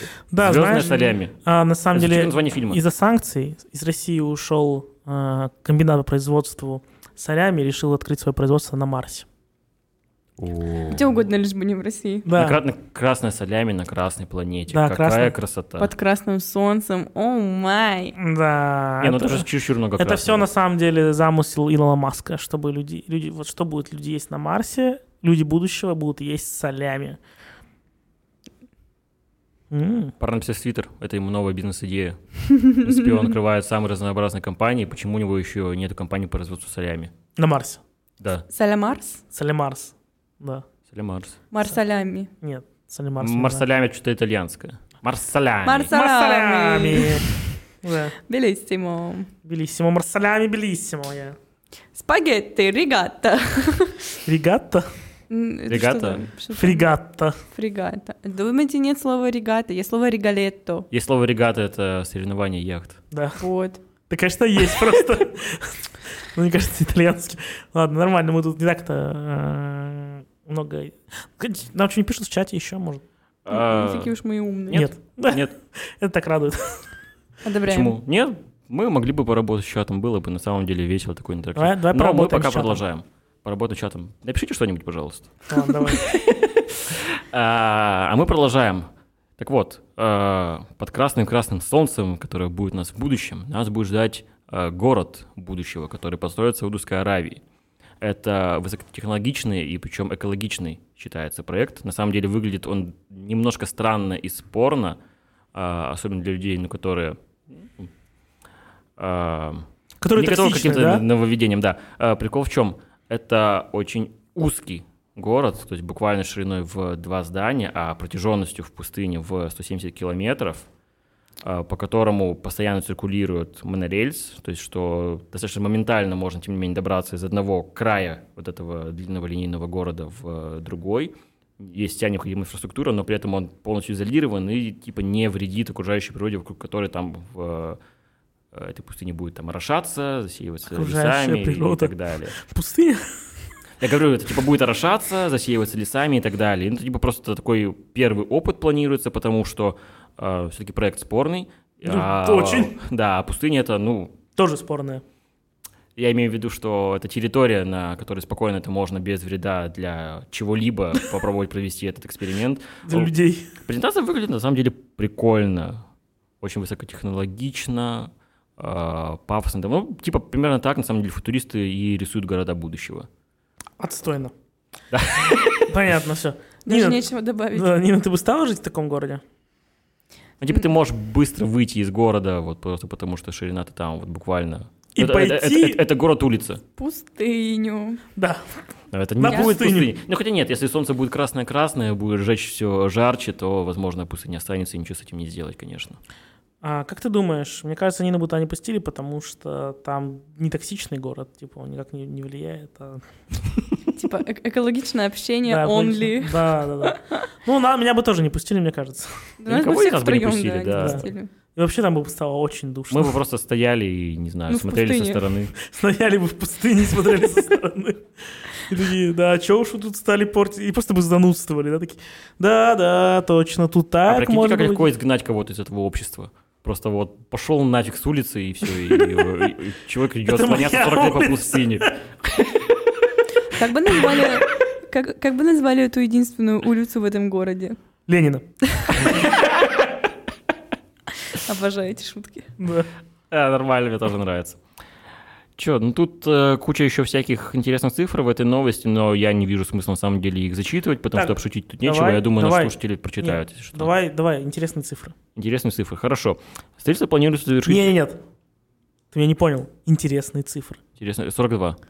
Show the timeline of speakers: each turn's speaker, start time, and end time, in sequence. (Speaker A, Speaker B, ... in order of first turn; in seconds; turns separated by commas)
Speaker A: 0.3-9.3, Speaker B: 0.4-1.3, Speaker B: 1.9-2.8, Speaker B: 10.4-11.1, Speaker C: 10.9-12.3, Speaker A: 12.2-12.6, Speaker B: 12.3-15.9, Speaker A: 14.7-15.3, Speaker C: 15.8-18.2, Speaker A: 18.2-27.2, Speaker B: 19.0-20.5, Speaker A: 29.7-30.1, Speaker B: 30.2-37.1, Speaker A: 37.4-37.8, Speaker B: 38.2-38.5, Speaker C: 38.5-39.2, Speaker A: 39.3-40.6, Speaker B: 40.9-41.4, Speaker C: 41.5-42.3, Speaker A: 42.4-43.6, Speaker B: 43.2-45.9, Speaker C: 45.6-47.3, Speaker A: 45.9-47.2, Speaker A: 47.8-48.1, Speaker C: 48.3-49.3, Speaker A: 49.4-51.4, Speaker C: 51.9-54.2, Speaker A: 54.2-54.9, Speaker C: 55.3-56.9, Speaker B: 55.7-56.2, Speaker A: 56.5-57.4, Speaker C: 57.5-60.9, Speaker B: 60.9-63.0, Speaker A: 63.1-63.4, Speaker C: 63.4-63.8, Speaker A: 64.1-73.0, Speaker B: 73.4-74.1, Speaker C: 73.5-74.9, Speaker B: 74.7-75.5, Speaker A: 74.7-76.8, Speaker C: 77.4-78.0, Speaker B: 77.7-88.9, Speaker A: 81.5-82.8, Speaker A: 85.5-86.1, Speaker B: 89.4-97.4, Speaker B: 98.0-105.0, Speaker B: 105.5-107.9, Speaker B: 109.0-120.7, Speaker A: 110.0-111.0, Speaker B: 121.4-137.8, Speaker B: 138.5-142.4, Speaker A: 140.7-143.2, Speaker B: 143.8-154.2, Speaker A: 151.8-152.7, Speaker A: 154.3-155.0, Speaker B: 155.9-165.8, Speaker A: 162.8-163.5, Speaker B: 166.4-173.1, Speaker A: 173.8-174.3, Speaker B: 174.9-175.7, Speaker A: 175.7-179.2, Speaker C: 176.6-177.7, Speaker B: 180.4-186.6, Speaker A: 184.9-185.8, Speaker C: 186.8-188.0, Speaker A: 188.2-188.4, Speaker B: 188.9-196.0, Speaker A: 189.2-189.9, Speaker A: 196.6-203.0, Speaker C: 203.9-207.2, Speaker A: 205.5-209.2, Speaker C: 209.4-211.3, Speaker B: 209.5-211.1, Speaker A: 210.8-211.0, Speaker A: 211.6-213.2, Speaker B: 212.9-215.5, Speaker C: 214.5-215.2, Speaker A: 215.6-224.9, Speaker B: 224.1-232.0, Speaker A: 230.2-231.9, Speaker C: 233.5-237.8, Speaker A: 238.1-238.4, Speaker C: 238.8-239.1, Speaker C: 241.3-242.5, Speaker A: 242.6-242.9, Speaker B: 243.3-244.6, Speaker B: 245.6-253.9, Speaker A: 251.1-255.2, Speaker B: 255.3-257.9, Speaker A: 257.6-258.2, Speaker A: 259.1-260.8, Speaker B: 261.0-261.8